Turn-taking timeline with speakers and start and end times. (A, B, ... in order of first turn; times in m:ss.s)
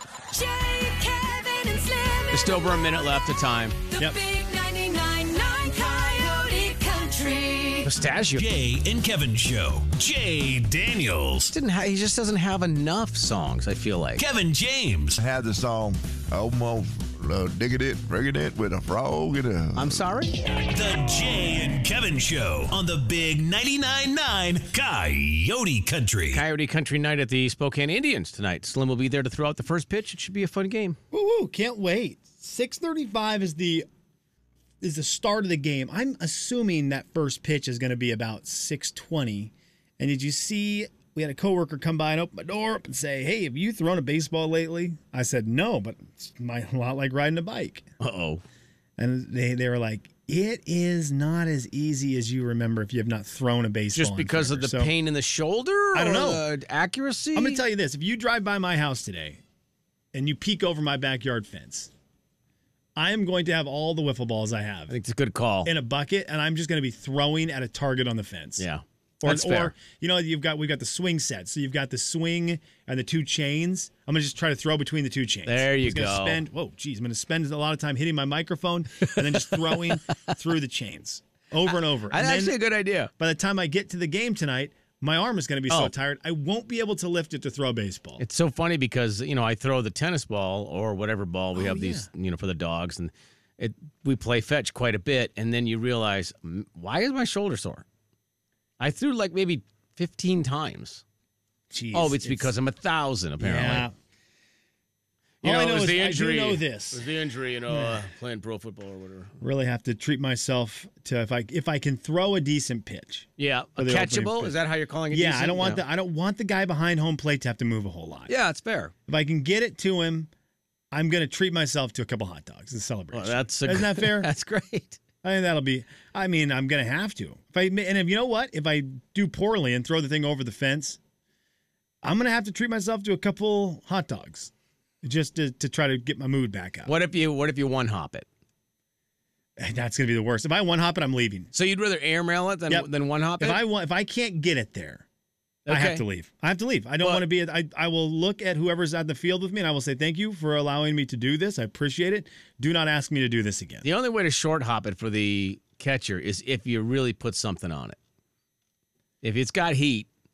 0:00.3-0:02.7 A
0:02.3-0:03.8 B
0:03.9-0:07.9 A
0:07.8-0:08.4 B
0:08.4-0:11.5 C
0:11.5-0:14.2 B
0:14.2-0:15.2 C
0:15.2-0:20.2 D
0:19.7-0:20.4 B
0:20.6-0:26.4 C
0:26.3-0:31.0 B
0:31.1-0:33.9 E
0:34.8-0:47.9 E
0:48.0-0:48.4 B
0:49.0-0:54.9 E
0:53.9-0:57.6 B
0:55.9-0:56.4 E
0:57.4-0:59.4 E
1:00.1-1:01.9 E
1:03.0-1:04.9 E
1:04.9-1:05.7 B
1:05.6-1:08.7 E
1:08.6-1:09.7 B
1:09.2-1:22.6 E
1:15.5-1:16.4 B
1:19.1-1:20.2 B
1:22.1-1:23.1 B
1:23.2-1:28.2 E
1:28.2-1:37.8 B
1:31.6-1:32.1 E
1:38.8-1:41.0 B
1:41.7-1:42.5 E
1:41.9-1:43.9 B
1:43.4-1:43.9 E
1:45.4-1:47.0 E
1:45.4-1:49.3 B
1:47.7-1:48.0 E
1:49.4-1:54.6 E
1:53.4-1:55.8 B
1:55.1-1:58.3 E
1:58.3-1:58.9 B
1:59.1-2:00.3 E
2:00.9-2:04.3 E
2:03.1-2:05.0 B
2:05.2-2:11.0 E
2:12.0-2:14.5 E
2:15.0-2:16.9 E
2:16.9-2:18.3 B
2:19.6-2:21.5 E
2:21.5-2:23.6 B
2:22.7-2:25.0 E
2:25.7-2:26.0 B
2:25.7-2:33.9 E
2:33.8-2:38.0 B
2:39.2-2:40.1 B